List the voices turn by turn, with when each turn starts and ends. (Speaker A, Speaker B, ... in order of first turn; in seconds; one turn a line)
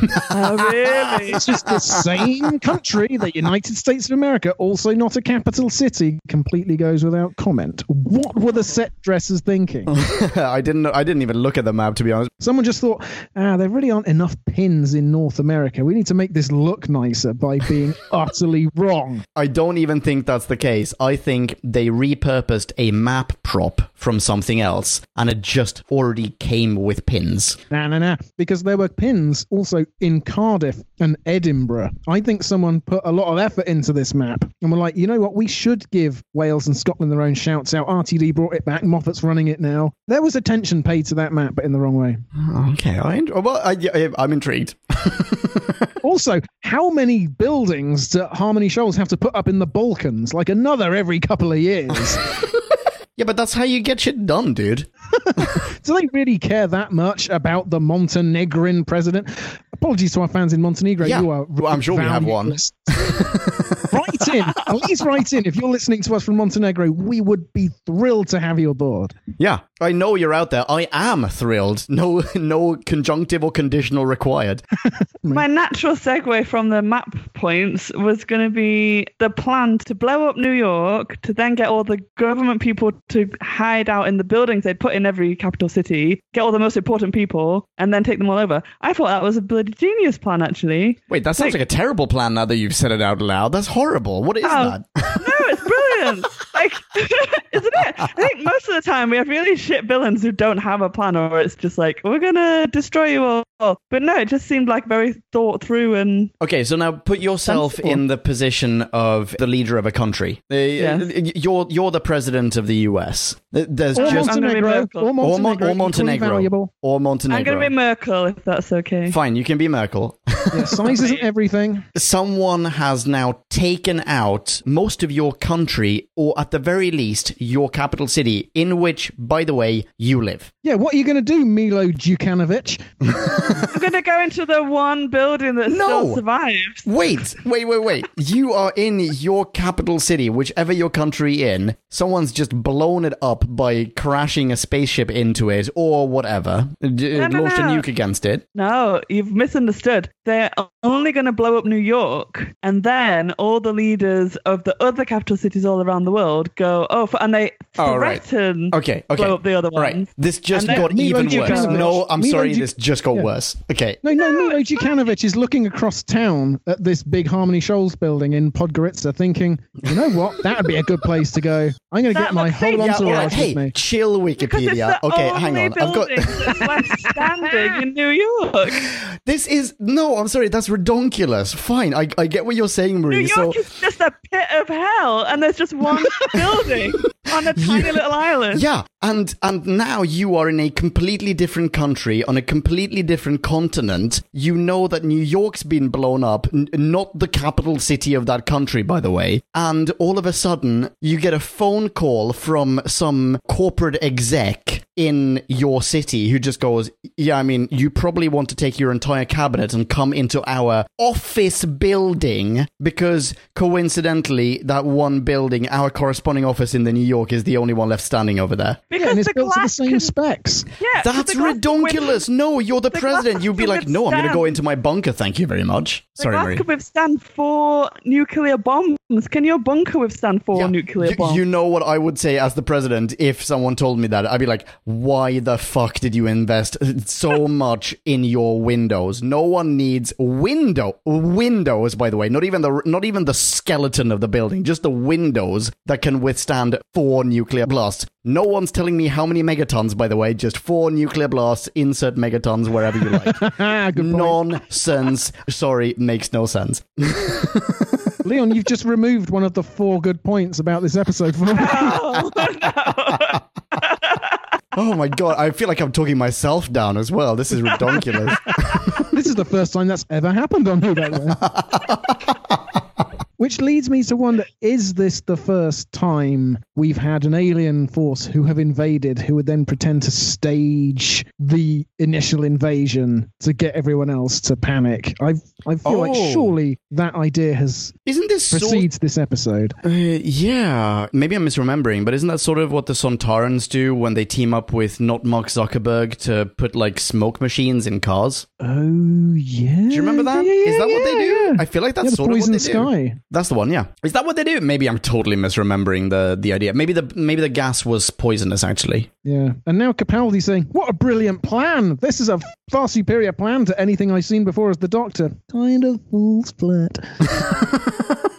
Speaker A: 0.2-2.2
Speaker B: 0.3-1.4
Speaker C: 1.3-9.9
Speaker A: 9.9-12.3
Speaker C: 12.4-19.2
Speaker A: 19.3-27.6
Speaker C: 27.7-42.2
Speaker A: 42.3-45.9
Speaker C: 46.0-52.2
Speaker A: 53.2-55.6
Speaker C: 55.5-63.3
Speaker A: 61.0-63.9
Speaker C: 63.9-69.1
Speaker A: 69.4-74.6
Speaker C: 74.9-75.5
Speaker B: 75.3-91.6
Speaker A: 91.1-95.4
Speaker B: 94.4-106.3
Speaker A: 106.4-114.3
Speaker C: 107.4-108.0
Speaker B: 110.8-111.0
Speaker B: 114.0-115.1
Speaker C: 114.0-116.7
Speaker A: 115.2-117.7
Speaker B: 117.3-119.2
Speaker A: 119.1-120.9
Speaker C: 120.5-121.8
Speaker A: 121.9-130.5
Speaker C: 130.6-132.9
Speaker A: 133.2-133.7
Speaker B: 133.7-136.8
Speaker A: 135.7-136.2
Speaker A: 136.8-148.4
Speaker B: 147.1-147.8
Speaker B: 148.5-161.8
Speaker A: 157.8-164.0
Speaker C: 160.6-163.3
Speaker C: 164.0-173.7
Speaker B: 164.1-164.9
Speaker B: 172.1-173.4
Speaker A: 172.7-176.6
Speaker B: 174.4-178.9
Speaker C: 177.1-177.8
Speaker A: 178.8-183.6
Speaker B: 183.1-188.6
Speaker A: 187.5-218.8
Speaker B: 218.9-220.1
Speaker C: 219.0-220.7
Speaker B: 220.8-222.2
Speaker A: 221.0-226.6
Speaker B: 222.9-224.5
Speaker B: 226.2-231.4
Speaker A: 230.5-258.0
Speaker C: 253.1-254.4
Speaker C: 258.2-262.4
Speaker B: 261.5-264.2
Speaker A: 264.7-269.1
Speaker C: 269.0-271.4
Speaker A: 271.5-272.0
Speaker C: 273.4-288.0
Speaker A: 285.8-286.5
Speaker A: 288.1-288.9
Speaker C: 288.5-289.7
Speaker A: 289.8-298.5
Speaker C: 298.6-303.2
Speaker A: 299.9-309.1
Speaker C: 309.2-317.2